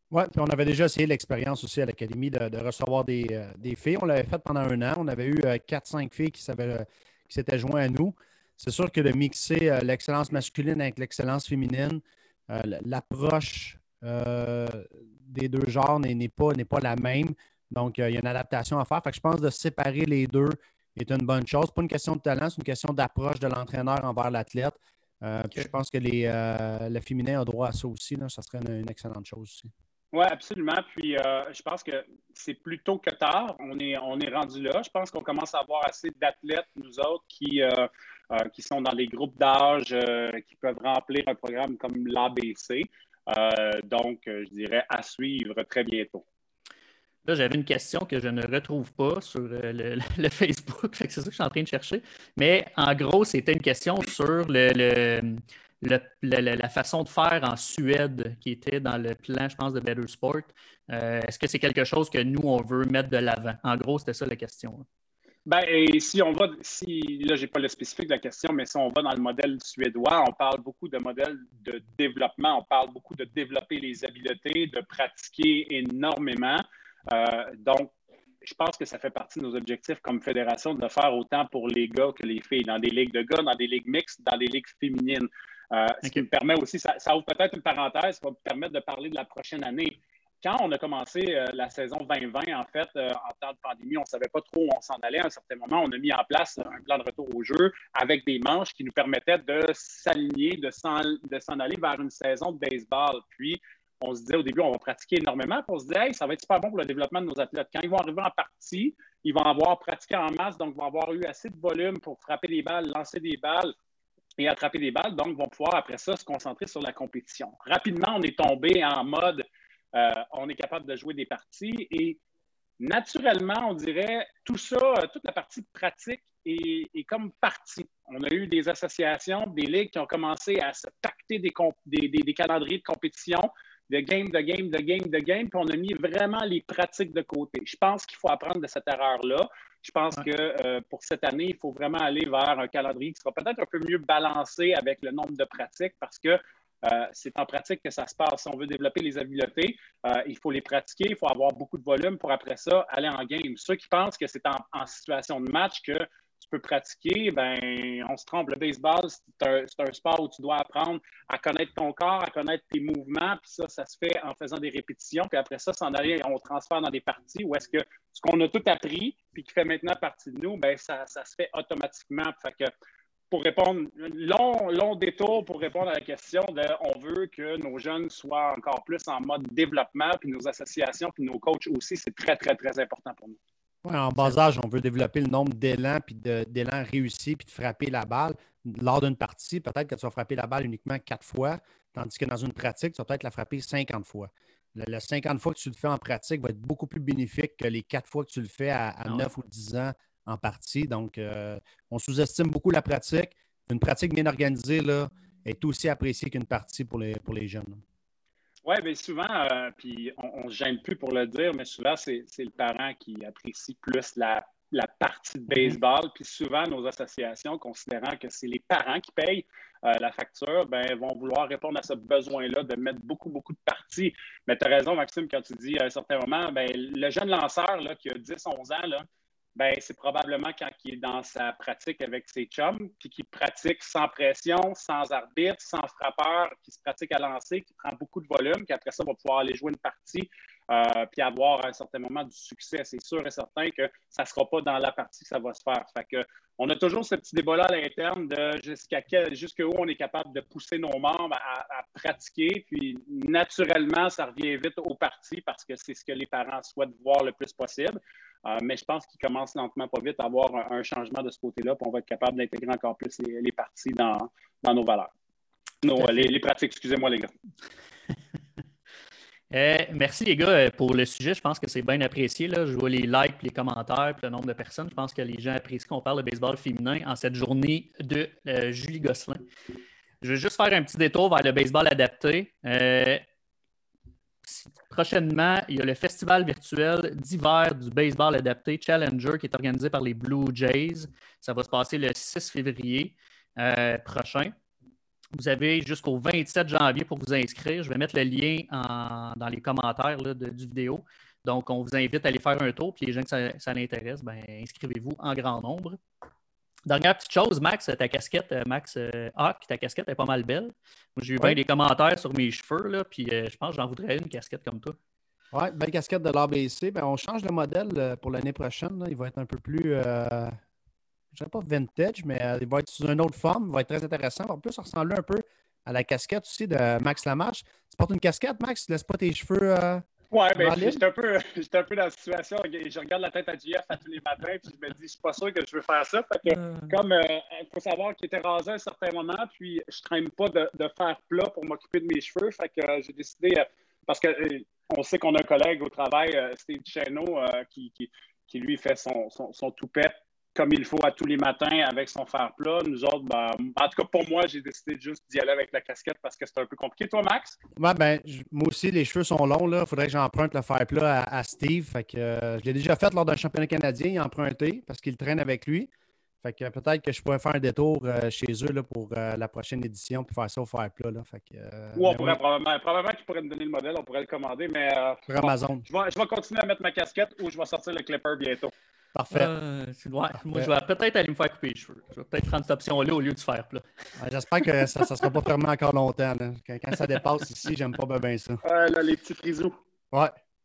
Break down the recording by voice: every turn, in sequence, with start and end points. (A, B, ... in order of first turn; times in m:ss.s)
0:00.1-0:29.7 A
0:30.1-0:46.2 B
0:47.2-1:04.8 C
1:05.5-1:17.9 B
1:18.4-1:53.7 B
1:54.4-2:02.2 B
2:02.8-2:52.7 B
2:53.3-3:03.4 B
3:03.8-3:27.8 A
3:28.7-4:25.1 B
4:25.8-4:27.3 B
4:26.0-4:26.3 C
4:29.5-4:39.4 C
4:40.2-4:43.2 C
4:44.4-4:54.5 C
4:55.3-5:06.0 C
5:06.9-5:15.0 C
5:15.5-5:20.6 A
5:21.3-5:30.1 A
5:30.3-5:57.6 B
5:30.6-5:31.0 A
5:36.6-5:36.9 C
5:57.8-6:05.9 A
6:06.4-6:12.4 A
6:12.0-6:18.7 B
6:15.3-6:15.8 A
6:19.1-6:19.5 A
6:19.3-6:23.9 C
6:24.2-6:28.6 A
6:28.6-6:29.8 B
6:30.1-6:30.4 A